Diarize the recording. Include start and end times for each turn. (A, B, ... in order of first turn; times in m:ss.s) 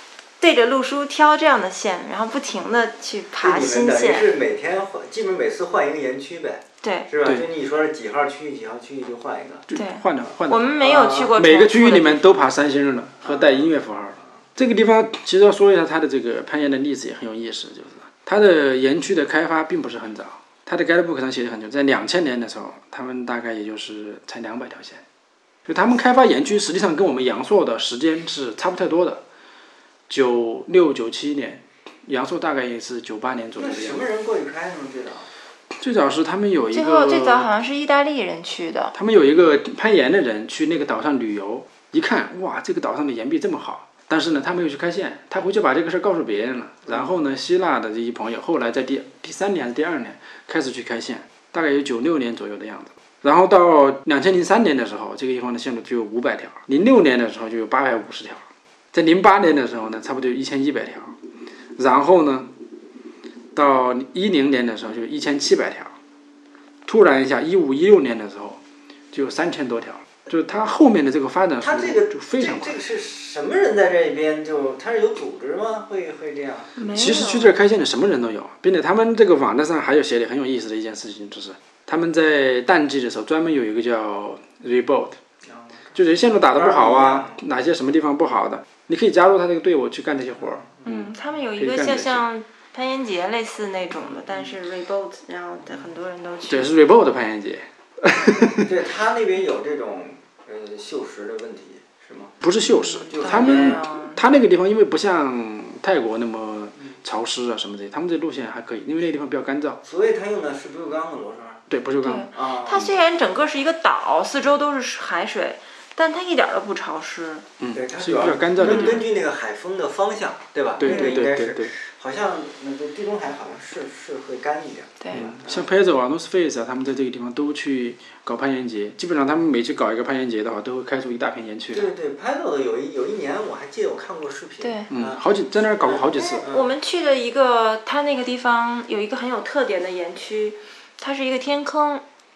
0:00.4-0:04.3 A
0:03.4-0:09.6 B
0:06.8-0:07.1 A
0:09.7-0:10.7 C
0:09.7-0:12.3 A
0:10.8-0:11.3 B
0:11.3-0:25.0 C
0:13.2-0:13.6 B
0:25.7-0:29.2 C
0:30.1-0:34.0 C
0:33.6-0:35.3 B
0:35.7-0:37.5 C
0:36.7-0:38.9 A
0:38.9-1:01.1 C
1:01.8-1:02.5 C
1:03.5-1:05.9 C
1:06.8-1:08.6 C
1:09.1-1:12.8 C
1:11.6-1:16.7 B
1:16.8-1:17.5 A
1:16.9-1:25.2 C
1:25.4-1:26.0 B
1:25.9-1:32.2 C
1:26.5-1:27.4 B
1:30.8-1:36.7 A
1:36.5-1:38.7 C
1:38.5-1:42.3 B
1:42.4-1:49.8 C
1:42.8-1:44.2 A
1:43.1-1:43.8 B
1:49.8-1:51.6 B
1:51.7-1:52.3 C
1:52.0-1:57.4 A
1:52.3-1:52.8 B
1:57.6-1:59.0 C
1:57.7-2:05.7 B
1:58.6-1:59.0 A
2:00.8-2:01.7 C
2:00.8-2:01.2 A
2:05.1-2:11.9 C
2:11.7-2:15.2 B
2:14.6-2:14.9 A
2:14.9-2:16.4 C
2:15.8-2:16.7 B
2:16.5-2:22.0 A